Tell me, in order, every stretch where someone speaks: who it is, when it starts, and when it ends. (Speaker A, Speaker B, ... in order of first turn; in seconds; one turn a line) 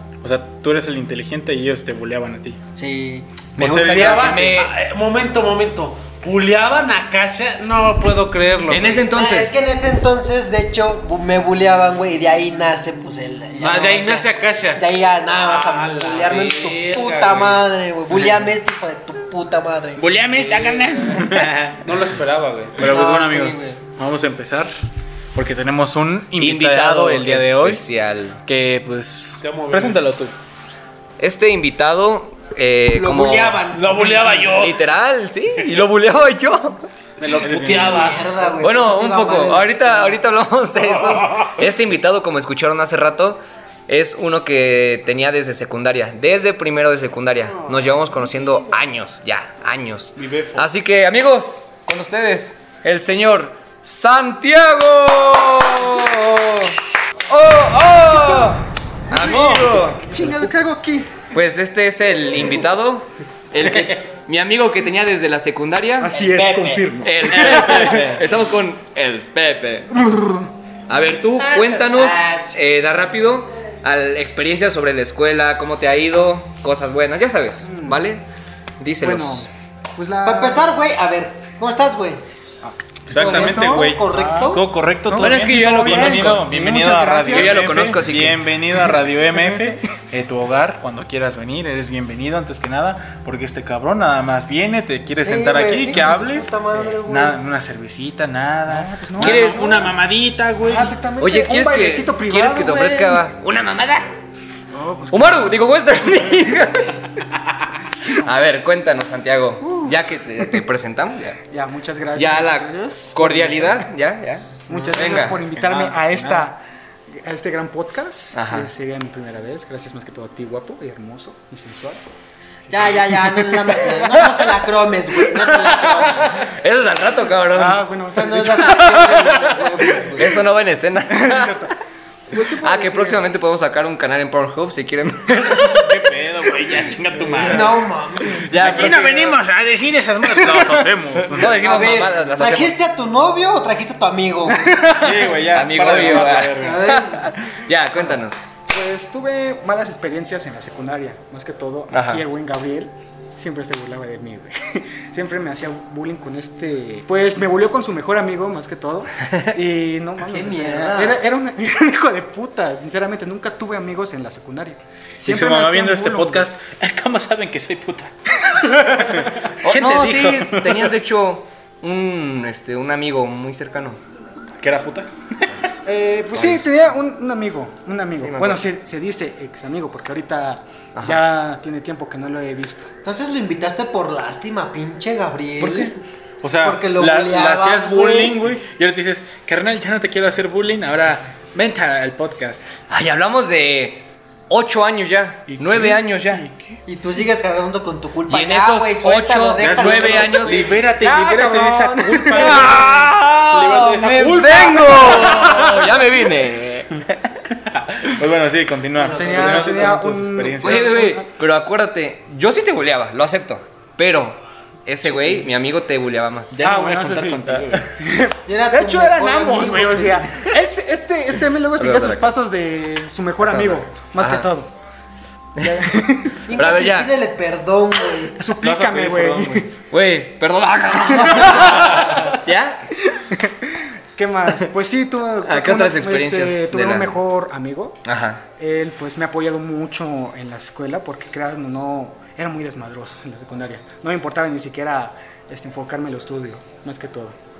Speaker A: 0.2-2.6
Speaker B: 2.8-3.5
Speaker A: 3.6-4.4
Speaker C: 3.6-4.7
Speaker D: 4.0-8.8
Speaker C: 8.7-9.5
Speaker B: 8.9-20.1
Speaker D: 13.6-14.8
Speaker D: 15.4-17.6
Speaker A: 20.0-21.9
Speaker D: 20.3-22.8
Speaker A: 22.8-24.7
Speaker B: 22.8-23.8
Speaker A: 25.4-27.8
Speaker C: 26.4-28.4
Speaker A: 28.4-30.3
Speaker D: 29.4-30.0
Speaker C: 31.2-33.6
Speaker B: 32.9-34.4
Speaker D: 33.8-34.7
Speaker A: 33.9-34.6
Speaker C: 34.6-36.8
Speaker D: 37.2-38.1
Speaker A: 37.3-38.3
Speaker B: 37.5-40.2
Speaker C: 38.6-56.8
Speaker C: 57.3-60.1
Speaker E: 58.1-58.5
Speaker E: 59.1-61.1
Speaker C: 61.3-66.3
Speaker E: 66.0-67.8
Speaker A: 66.2-68.2
Speaker C: 67.0-70.0
Speaker E: 70.0-70.5
Speaker C: 70.9-78.2
Speaker B: 71.5-72.6
Speaker E: 77.6-78.0
Speaker C: 78.8-79.5
Speaker E: 79.0-80.7
Speaker B: 80.2-82.2
Speaker E: 82.6-87.9
Speaker A: 83.1-96.5
Speaker B: 83.1-84.7
Speaker C: 85.2-86.5
Speaker C: 87.3-88.5
Speaker E: 89.4-89.8
Speaker B: 95.1-97.4
Speaker A: 97.0-101.0
Speaker E: 98.7-100.0
Speaker C: 99.2-99.8
Speaker E: 100.6-103.2
Speaker C: 101.2-104.1
Speaker E: 104.7-105.6
Speaker C: 105.1-107.1
Speaker C: 108.2-111.4
Speaker E: 109.6-110.6
Speaker E: 111.5-113.9
Speaker C: 112.2-115.4
Speaker E: 114.7-122.0
Speaker A: 115.1-116.5
Speaker C: 118.3-118.7
Speaker B: 122.7-126.5
Speaker C: 125.6-127.8
Speaker E: 127.5-129.2
Speaker B: 128.1-130.4
Speaker C: 128.5-131.7
Speaker E: 131.1-131.7
Speaker E: 132.3-133.2
Speaker C: 132.4-135.9
Speaker A: 135.5-137.9
Speaker B: 137.5-139.1
Speaker C: 138.3-139.3
Speaker A: 138.5-141.6
Speaker C: 141.3-142.8
Speaker B: 141.4-145.0
Speaker A: 144.9-146.9
Speaker C: 145.0-148.4
Speaker B: 146.6-147.3
Speaker E: 148.7-166.5
Speaker C: 151.9-152.2
Speaker B: 160.2-161.2
Speaker A: 165.2-170.9
Speaker C: 169.6-174.0
Speaker A: 174.6-175.7
Speaker E: 175.8-182.9
Speaker C: 176.3-176.7
Speaker C: 178.2-178.6
Speaker C: 180.9-181.2
Speaker B: 183.0-185.9
Speaker A: 185.6-185.9
Speaker A: 186.4-192.6
Speaker B: 186.6-188.4
Speaker C: 192.9-196.4
Speaker A: 195.5-196.8
Speaker B: 196.9-200.7
Speaker C: 198.3-200.6
Speaker A: 199.6-206.0
Speaker E: 200.8-202.9
Speaker C: 202.3-207.3
Speaker A: 207.7-211.1
Speaker B: 209.0-209.8
Speaker E: 209.0-211.3
Speaker C: 210.6-216.6
Speaker A: 216.5-217.9
Speaker E: 216.6-224.7
Speaker B: 218.5-220.3
Speaker C: 221.8-222.3
Speaker C: 223.4-224.5
Speaker C: 225.6-227.1
Speaker E: 225.6-226.4
Speaker B: 226.4-228.4
Speaker E: 228.3-229.7
Speaker A: 228.6-229.7
Speaker C: 229.9-232.8
Speaker E: 231.1-232.3
Speaker E: 233.0-238.0
Speaker C: 235.4-237.2
Speaker C: 238.0-238.4
Speaker E: 238.6-247.4